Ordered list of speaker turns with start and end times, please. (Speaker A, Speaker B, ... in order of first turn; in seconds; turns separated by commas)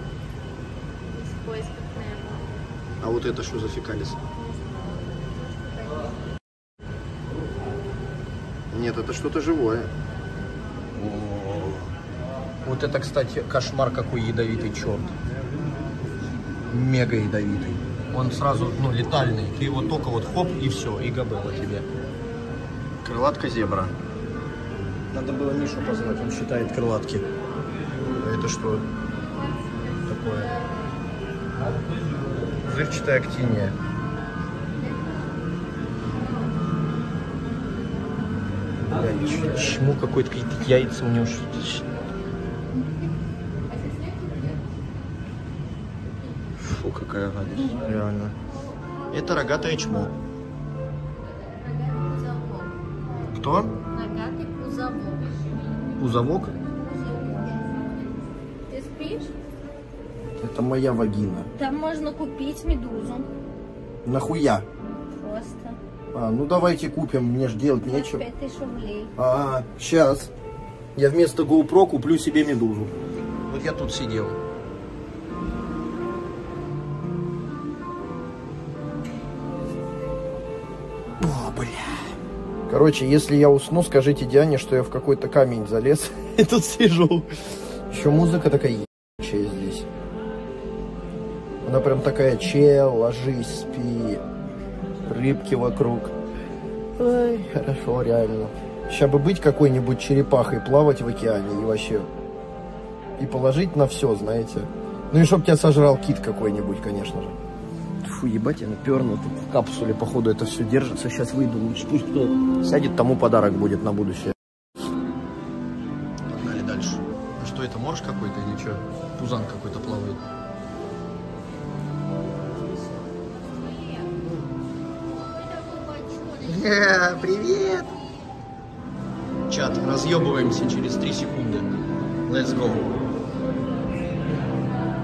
Speaker A: 1.1-2.5, Speaker B: 3.0-4.2, Speaker A: 5.2-6.2, Speaker B: 8.7-9.9, Speaker B: 10.9-11.9, Speaker B: 12.6-15.2, Speaker B: 16.7-21.9, Speaker B: 23.0-24.0, Speaker B: 25.1-27.2, Speaker B: 28.1-28.9, Speaker A: 29.4-30.7, Speaker B: 30.0-30.5, Speaker B: 32.6-33.8, Speaker A: 34.8-35.2, Speaker B: 38.9-41.9, Speaker A: 43.7-44.6, Speaker B: 46.6-48.4, Speaker A: 48.7-50.0, Speaker B: 49.1-50.1, Speaker A: 51.5-55.5, Speaker B: 53.3-53.8, Speaker B: 56.0-56.6, Speaker A: 56.7-58.2, Speaker A: 58.7-59.3, Speaker B: 60.4-61.5, Speaker A: 61.5-63.3, Speaker B: 64.0-64.7, Speaker A: 65.2-65.8, Speaker B: 66.1-68.2, Speaker A: 67.8-69.1, Speaker B: 69.2-70.3, Speaker B: 71.0-72.9, Speaker B: 73.5-74.4, Speaker B: 81.2-82.0, Speaker B: 82.7-87.3, Speaker B: 87.9-89.9, Speaker B: 91.7-94.2, Speaker B: 95.1-96.1, Speaker B: 97.0-102.1, Speaker B: 103.2-107.3, Speaker B: 108.0-114.4, Speaker B: 116.3-120.2, Speaker A: 123.5-124.2, Speaker A: 125.2-127.3, Speaker B: 126.5-127.9, Speaker B: 129.5-131.7, Speaker B: 132.3-132.9